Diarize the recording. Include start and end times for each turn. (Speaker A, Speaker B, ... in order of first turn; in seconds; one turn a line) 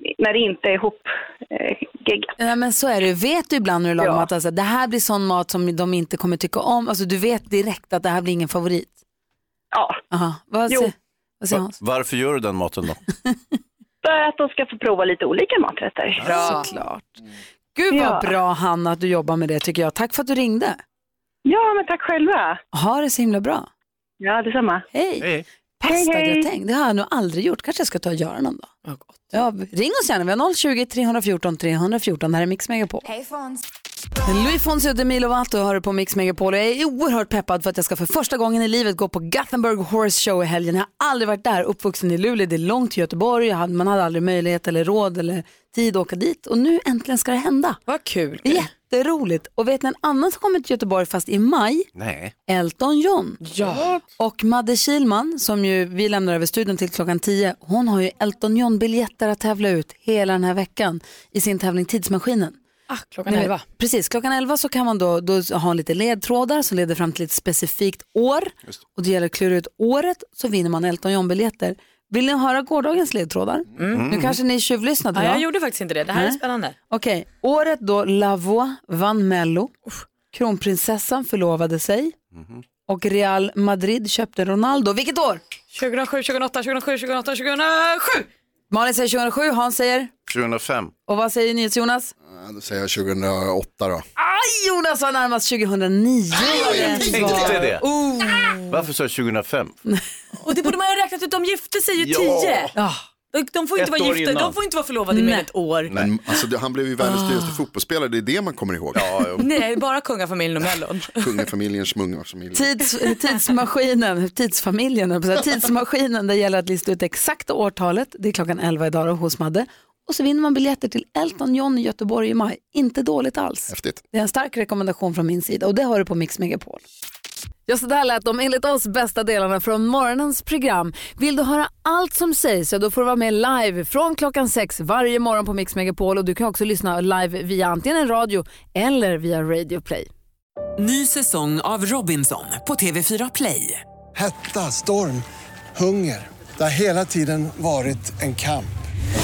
Speaker A: 0.2-2.3
Speaker B: 2.4-9.0
Speaker A: 4.0-4.3
Speaker A: 9.7-10.0
Speaker B: 10.1-11.7
Speaker C: 11.5-13.0
Speaker A: 14.0-16.4
Speaker B: 16.2-17.2
Speaker C: 16.2-16.6
Speaker B: 17.8-20.8
Speaker A: 17.9-18.3
Speaker A: 21.4-22.6
Speaker B: 22.7-23.7
Speaker A: 24.2-24.9
Speaker B: 24.9-25.3
Speaker C: 25.2-25.5
Speaker B: 25.8-28.7
Speaker A: 25.8-26.5
Speaker D: 28.9-29.1
Speaker B: 29.3-33.0
Speaker B: 34.3-47.8
Speaker D: 47.9-48.7
Speaker B: 48.4-51.9
Speaker C: 52.0-52.3
Speaker B: 52.5-53.4
Speaker D: 53.4-53.9
Speaker B: 54.0-62.6
Speaker D: 62.9-63.6
Speaker B: 63.3-75.4
Speaker D: 73.8-74.1
Speaker C: 73.9-74.4
Speaker D: 75.2-76.8
Speaker B: 76.1-76.4
Speaker B: 76.9-79.7
Speaker B: 80.3-82.2
Speaker C: 82.3-82.6
Speaker B: 82.9-85.4
Speaker D: 85.7-88.3
Speaker B: 88.7-90.1
Speaker C: 90.3-90.9
Speaker B: 91.1-92.1
Speaker E: 92.3-94.0
Speaker B: 94.2-98.7
Speaker E: 96.4-97.6
Speaker C: 97.1-97.8
Speaker C: 98.7-99.8
Speaker D: 100.4-102.7
Speaker C: 102.0-102.7
Speaker B: 102.8-103.0
Speaker D: 103.3-105.9
Speaker C: 103.8-104.6
Speaker B: 105.1-105.5
Speaker E: 105.9-109.1
Speaker C: 109.0-109.5
Speaker D: 109.4-111.3
Speaker E: 111.2-112.7
Speaker B: 112.5-126.8
Speaker E: 123.7-124.0
Speaker B: 127.7-140.1
Speaker F: 140.8-143.8
Speaker G: 144.2-148.8